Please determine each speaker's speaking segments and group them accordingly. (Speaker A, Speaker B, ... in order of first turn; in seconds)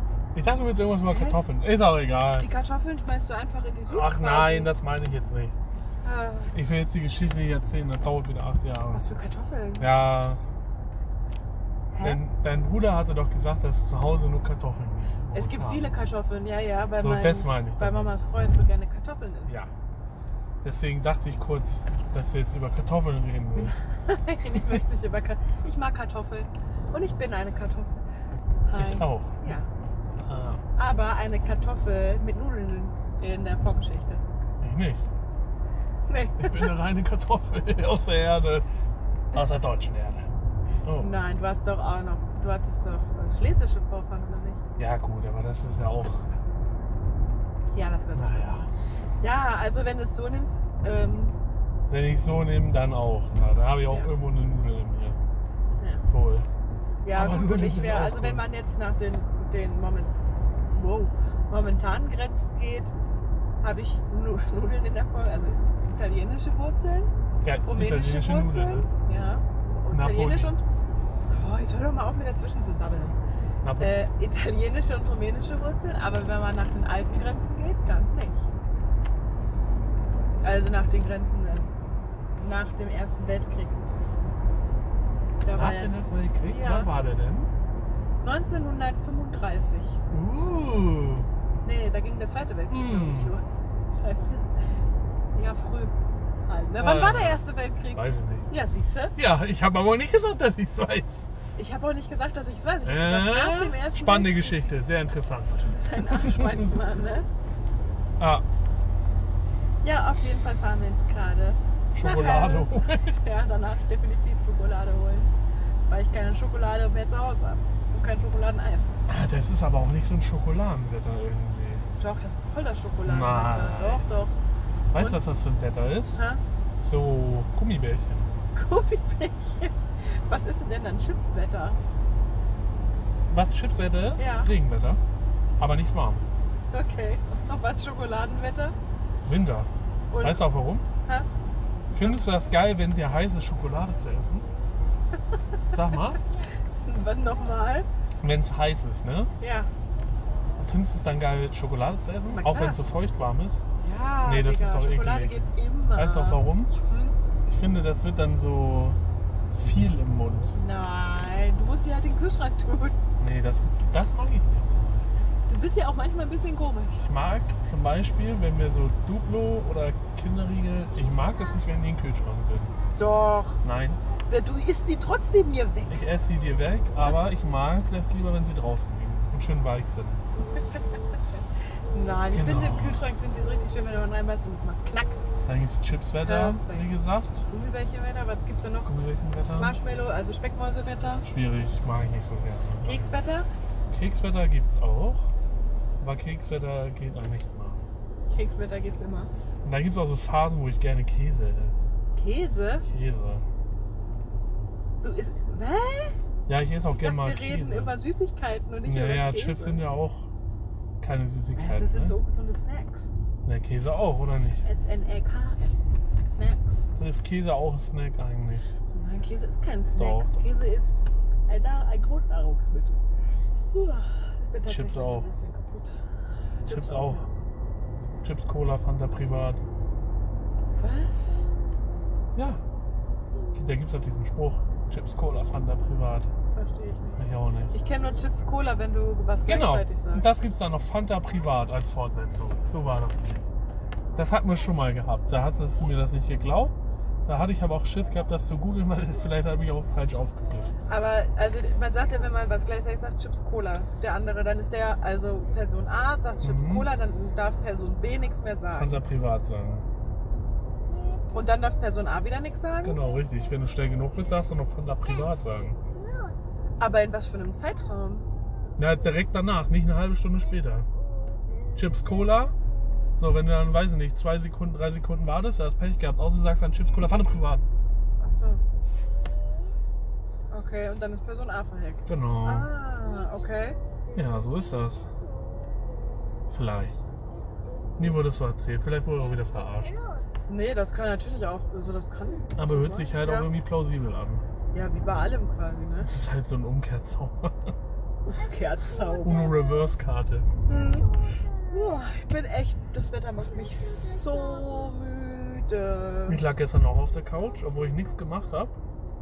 Speaker A: 0.3-2.5, 3.9-5.5, 6.5-9.0, 9.8-10.4, 12.0-15.9, 17.0-18.1, 19.5-19.7, 20.6-23.8, 28.8-29.6, 30.2-30.6, 34.6-35.0, 36.4-38.6, 39.3-40.2, 40.8-41.1, 44.8-46.3, 48.1-48.7, 51.9-55.2, 56.1-56.5, 57.1-58.4, 67.4-68.9, 69.9-70.5, 73.6-73.9, 85.5-87.5, 90.1-91.3, 92.7-93.3, 96.8-98.5, 99.2-101.2, 102.8-106.6, 108.2-108.4, 111.9-113.2, 119.1-121.8, 123.0-124.0, 124.9-126.2, 126.8-128.3, 133.3-135.0, 135.6-136.2, 139.2-140.8, 141.9-144.5, 145.7-146.2, 148.2-149.3, 150.6-153.6, 154.2-156.7, 157.4-159.0, 159.5-160.5, 163.2-165.1, 167.0-172.7, 173.6-174.0, 175.9-180.2, 182.3-183.0, 185.4-187.4, 188.8-189.8, 190.8-193.1, 193.9-195.3, 196.0-197.8, 199.6-201.8, 202.9-203.4, 206.5-207.9, 208.8-210.3, 211.0-212.2, 213.4-214.6, 216.9-218.7, 220.0-220.4, 224.6-225.3, 226.6-227.3, 228.2-229.6, 232.3-232.6, 233.5-236.3, 237.2-237.8, 239.5-243.4, 244.1-246.7, 247.2-250.7, 256.4-256.9, 258.7-259.9, 262.8-265.8, 268.8-270.9, 271.7-272.5, 273.2-277.6, 282.1-282.7, 284.1-285.1, 286.5-287.0, 288.0-289.9, 292.6-294.4, 296.0-297.7, 299.2-300.5, 306.3-308.7
Speaker B: 1.0-1.4, 2.4-4.7, 6.0-6.5, 8.9-9.9, 11.9-12.2, 15.3-19.6, 23.6-28.0, 28.6-29.7, 30.8-34.2, 36.1-36.8, 41.0-44.6, 47.7-48.6, 49.2-51.4, 53.9-54.1, 55.8-56.0, 57.0-60.1, 60.7-62.9, 63.6-67.1, 67.7-70.6, 71.3-73.2, 73.8-78.4, 80.4-81.7, 82.4-83.8, 85.4-86.0, 86.5-86.9, 88.2-90.0, 91.6-93.5, 94.0-94.5, 95.3-95.9, 96.5-99.2, 101.5-104.7, 105.5-107.3, 109.8-115.3, 115.9-119.0, 122.0-124.3, 126.1-126.4, 128.5-131.8, 134.2-134.5, 136.7-138.8, 140.1-140.5, 141.9-142.2, 146.8-147.9, 149.4-149.7, 152.3-152.8, 153.8-157.2, 160.5-163.0, 165.5-167.0, 172.9-173.6, 174.3-176.0, 180.6-181.0, 181.9-185.2, 186.2-186.9, 187.5-188.9, 189.6-191.2, 192.8-193.5, 198.3-199.3, 202.2-202.8, 205.0-206.2, 207.0-209.8, 211.5-213.1, 214.6-216.8, 218.9-223.0, 223.7-225.9, 226.6-227.3, 230.8-231.5, 236.5-240.3, 250.9-258.9, 261.3-263.0, 266.8-268.2, 278.2-278.6, 280.5-283.8, 290.5-293.5, 294.7-296.1, 298.2-299.5, 300.7-301.1, 301.7-306.4
Speaker C: 260.9-261.6, 265.8-266.4, 271.1-272.1, 283.0-285.7, 287.6-288.0, 289.2-290.4, 298.6-299.8, 300.7-302.0, 303.5-305.2